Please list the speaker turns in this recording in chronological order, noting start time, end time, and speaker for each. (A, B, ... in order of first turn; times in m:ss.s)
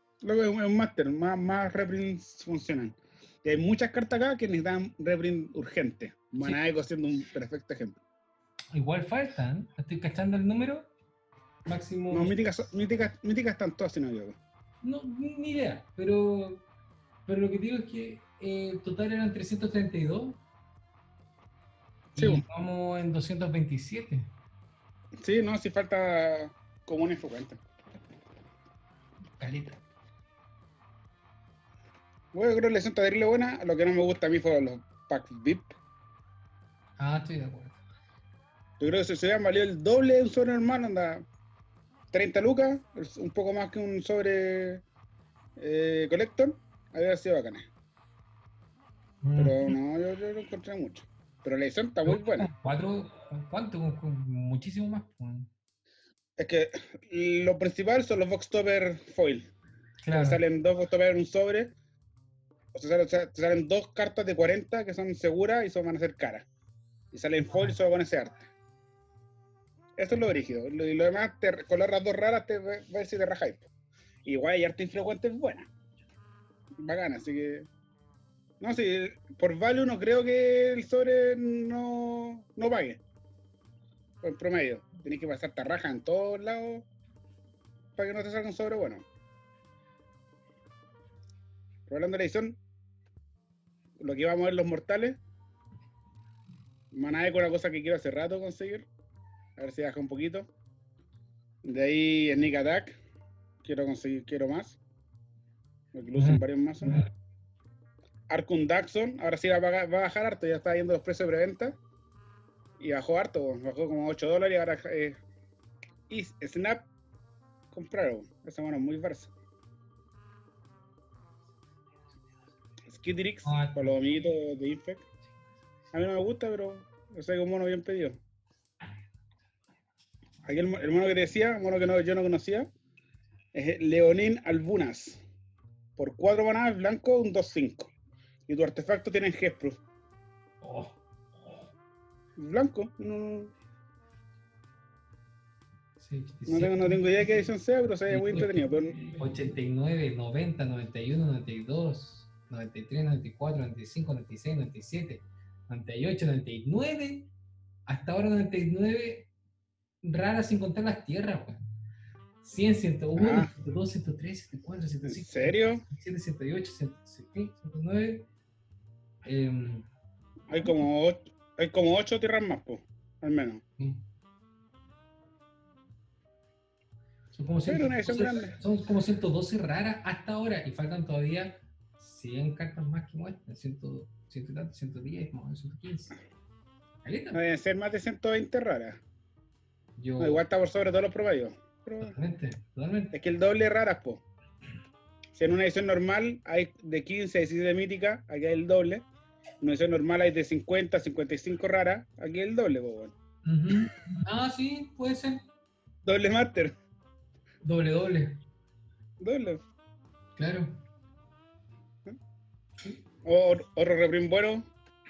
0:00.2-0:08.0 A
0:08.7-0:10.9 B
0:11.7-0:12.4 B
0:12.1-0:14.4 A
0:14.8-0:16.7 B
0:17.3-0:20.4 B
0:22.1-0:22.4 A
0:22.2-0:24.3 B
0:25.2-0:27.6 A
0:29.4-0:29.8 B
0:32.3-0:35.7 A
0:37.0-0:37.8 B
0:38.8-0:41.3 A
0:42.1-0:44.8 A
0:45.6-0:47.7 A
0:49.2-0:49.8 B
0:49.4-0:52.5 A
0:52.0-0:55.5 B
0:56.4-0:59.5 A
1:00.0-1:00.4 B
1:00.1-1:01.7 A
1:02.7-1:06.5 A
1:07.1-1:08.4 A
1:10.0-1:13.7 A
1:14.2-1:15.7 A
1:16.8-1:17.7 A
1:18.6-1:23.0 A
1:24.2-1:26.9 A
1:28.0-1:29.0 A
1:31.9-1:32.6 A
1:34.0-1:35.2 A
1:36.9-1:38.9 A
1:39.6-1:40.5 A
1:41.6-1:43.0 A
1:43.6-1:44.8 A
1:45.9-1:47.0 A
1:46.2-1:47.1 B
1:48.3-1:51.8 A
1:52.8-1:55.2 A
1:56.1-1:56.9 A
1:57.7-1:59.3 A
2:02.9-2:05.0 A
2:03.4-2:04.0 B
2:05.9-2:08.2 A
2:10.4-2:12.7 A
2:13.5-2:15.2 A
2:16.0-2:17.9 A
2:18.5-2:19.8 A
2:20.6-2:21.0 B
2:22.4-2:23.5 A
2:26.0-2:27.3 B
2:26.5-2:29.0 A
2:28.1-2:37.3 B
2:37.9-2:39.3 B
2:40.0-2:41.7 B
2:42.4-2:48.3 B
2:43.2-2:43.5 A
2:45.1-2:45.8 A
2:49.2-2:49.9 B
2:50.5-2:53.6 A
2:57.3-3:06.2 B
2:57.7-2:58.6 A
3:07.0-3:07.4 B
3:07.3-3:09.0 A
3:10.0-3:10.4 B
3:10.2-3:12.2 A
3:12.0-3:13.1 B
3:13.1-3:14.2 A
3:15.4-3:19.0 A
3:19.6-3:23.1 A
3:23.4-3:25.4 B
3:26.0-3:26.8 A
3:27.6-3:28.4 B
3:29.2-3:29.6 A
3:30.4-3:30.8 B
3:33.2-3:34.7 A